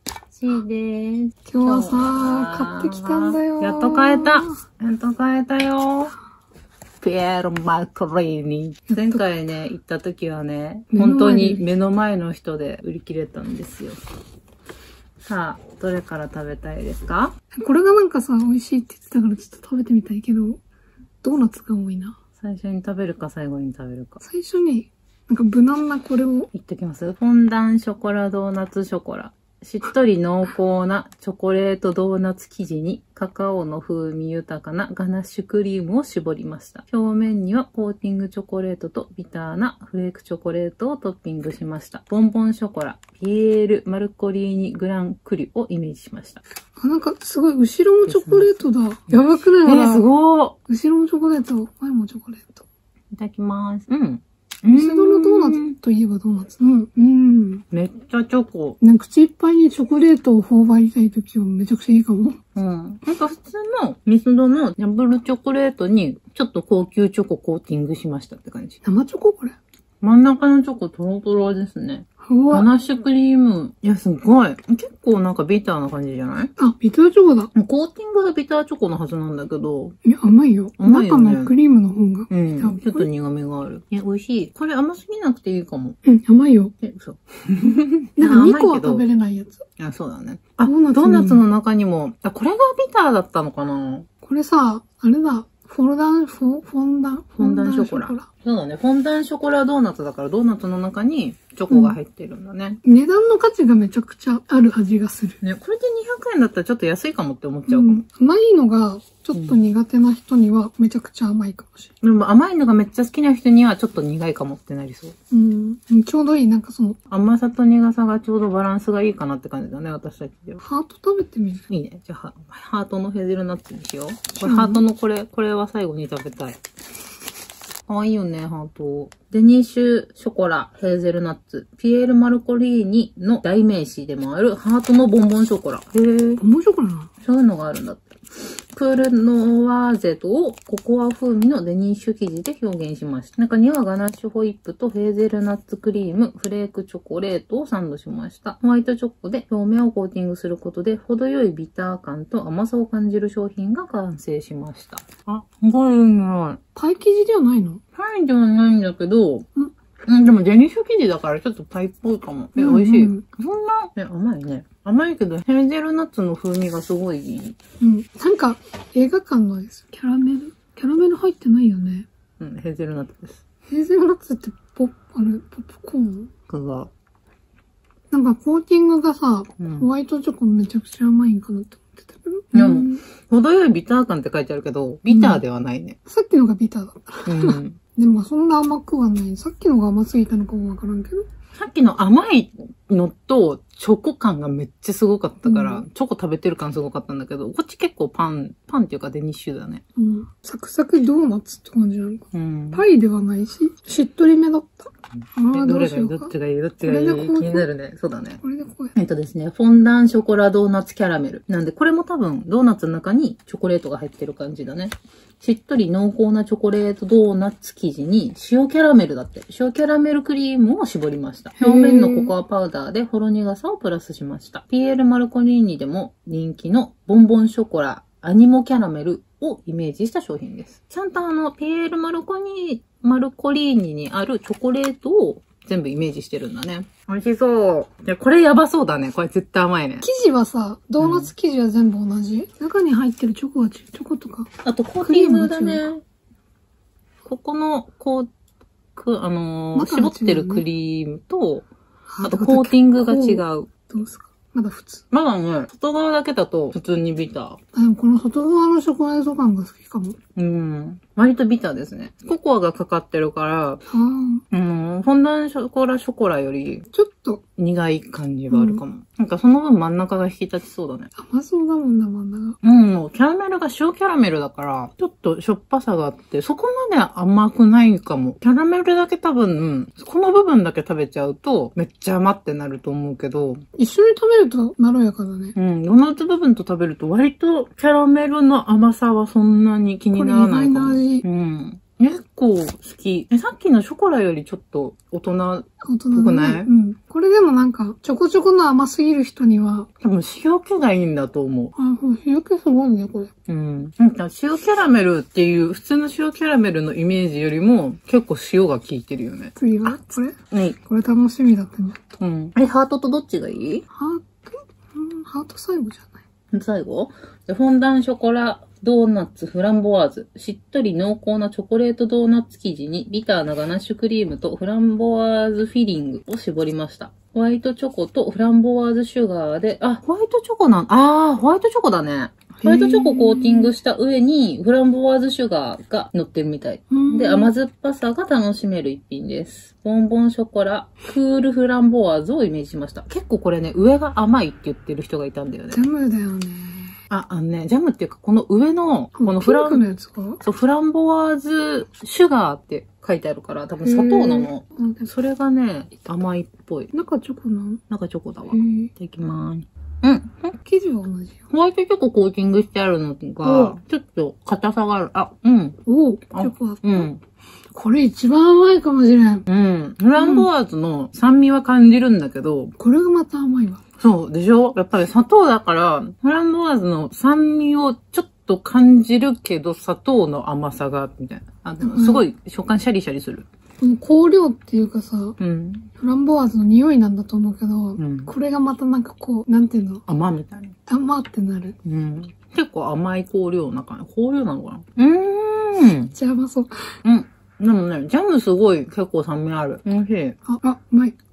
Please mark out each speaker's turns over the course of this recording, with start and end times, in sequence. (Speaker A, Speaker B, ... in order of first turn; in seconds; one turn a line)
Speaker A: 0.3-6.1
Speaker B: 1.4-4.6
Speaker A: 7.0-14.0
Speaker B: 8.9-9.2
Speaker B: 10.9-11.6
Speaker A: 15.2-17.3
Speaker B: 17.5-20.6
Speaker B: 21.2-22.1
Speaker A: 22.4-24.2
Speaker B: 24.2-26.5
Speaker A: 26.5-46.4
Speaker B: 46.8-50.0
Speaker A: 48.1-48.5
Speaker A: 49.6-50.5
Speaker B: 50.7-52.6
Speaker A: 53.1-55.7
Speaker B: 54.7-57.6
Speaker A: 57.7-58.8
Speaker B: 58.8-62.4
Speaker A: 62.5-68.8
Speaker B: 68.8-69.5
Speaker A: 70.0-76.5
Speaker B: 72.2-72.7
Speaker B: 76.6-77.5
Speaker A: 77.5-80.0
Speaker B: 80.0-83.1
Speaker A: 80.8-81.5
Speaker A: 82.3-86.0
Speaker B: 86.0-86.7
Speaker A: 86.8-89.0
Speaker B: 88.2-89.6
Speaker A: 89.8-94.1
Speaker B: 90.6-91.4
Speaker B: 94.2-98.3
Speaker A: 97.4-102.8
Speaker B: 101.7-102.0
Speaker B: 102.8-105.4
Speaker A: 105.4-108.0
Speaker B: 107.7-111.9
Speaker A: 109.3-109.6
Speaker A: 112.0-115.1
Speaker B: 115.3-117.0
Speaker A: 117.1-120.6
Speaker B: 120.6-121.6
Speaker A: 121.7-126.6
Speaker B: 124.3-124.8
Speaker A: 127.9-136.4
Speaker B: 136.4-137.1
Speaker A: 137.2-156.6
Speaker B: 156.7-157.8
Speaker A: 157.9-159.5
Speaker A: 160.1-167.6
Speaker B: 162.6-163.2
Speaker B: 167.8-172.1
Speaker A: 172.4-173.4
Speaker B: 173.7-176.3
Speaker A: 176.5-176.9
Speaker B: 178.1-183.0
Speaker A: 179.6-179.9
Speaker A: 182.5-186.0
Speaker B: 185.1-185.4
Speaker B: 186.1-191.2
Speaker A: 187.2-187.8
Speaker A: 191.5-199.8
Speaker B: 195.4-195.8
Speaker B: 199.9-207.7
Speaker A: 202.3-202.8
Speaker A: 205.5-208.4
Speaker B: 208.4-208.9
Speaker A: 208.9-240.1
Speaker B: 221.6-222.3
Speaker B: 240.0-244.5
Speaker A: 241.0-241.3
Speaker A: 244.6-246.0
Speaker B: 245.0-245.8
Speaker A: 247.2-248.3
Speaker A: 248.9-251.7
Speaker B: 249.7-250.6
Speaker B: 252.1-255.0
Speaker A: 252.2-253.7
Speaker A: 255.1-257.6
Speaker B: 257.7-260.2
Speaker A: 260.4-263.8
Speaker B: 263.9-264.4
Speaker A: 264.5-266.9
Speaker B: 266.9-267.4
Speaker A: 267.6-271.1
Speaker B: 268.5-268.8
Speaker B: 271.1-272.6
Speaker A: 272.6-283.6
Speaker B: 283.8-285.5
Speaker A: 285.6-296.7
Speaker B: 290.1-291.2
Speaker B: 295.8-299.9
Speaker A: 300.0-301.7
Speaker B: 301.7-303.3
Speaker A: 303.5-310.8
Speaker B: 309.6-312.1
Speaker A: 312.2-313.8
Speaker B: 313.9-316.2
Speaker A: 316.5-345.8
Speaker B: 332.6-333.7
Speaker B: 336.9-337.5
Speaker B: 345.7-347.0
Speaker A: 347.1-349.8
Speaker B: 349.2-350.4
Speaker A: 350.4-356.9
Speaker B: 353.8-355.1
Speaker B: 356.9-357.8
Speaker A: 357.9-360.5
Speaker B: 358.5-358.9
Speaker B: 360.6-361.4
Speaker A: 361.5-365.8
Speaker B: 363.4-363.8
Speaker B: 365.9-367.1
Speaker A: 366.3-367.2
Speaker B: 367.7-369.4
Speaker A: 369.5-372.7
Speaker B: 370.1-370.5
Speaker B: 372.8-373.8
Speaker A: 374.0-383.4
Speaker B: 381.8-382.2
Speaker B: 383.8-385.4
Speaker A: 385.4-385.9
Speaker B: 386.0-390.0
Speaker A: 388.0-388.3
Speaker A: 390.1-390.8
Speaker B: 390.9-391.8
Speaker A: 391.8-396.1
Speaker B: 396.1-396.9
Speaker A: 397.0-400.4
Speaker B: 400.4-401.1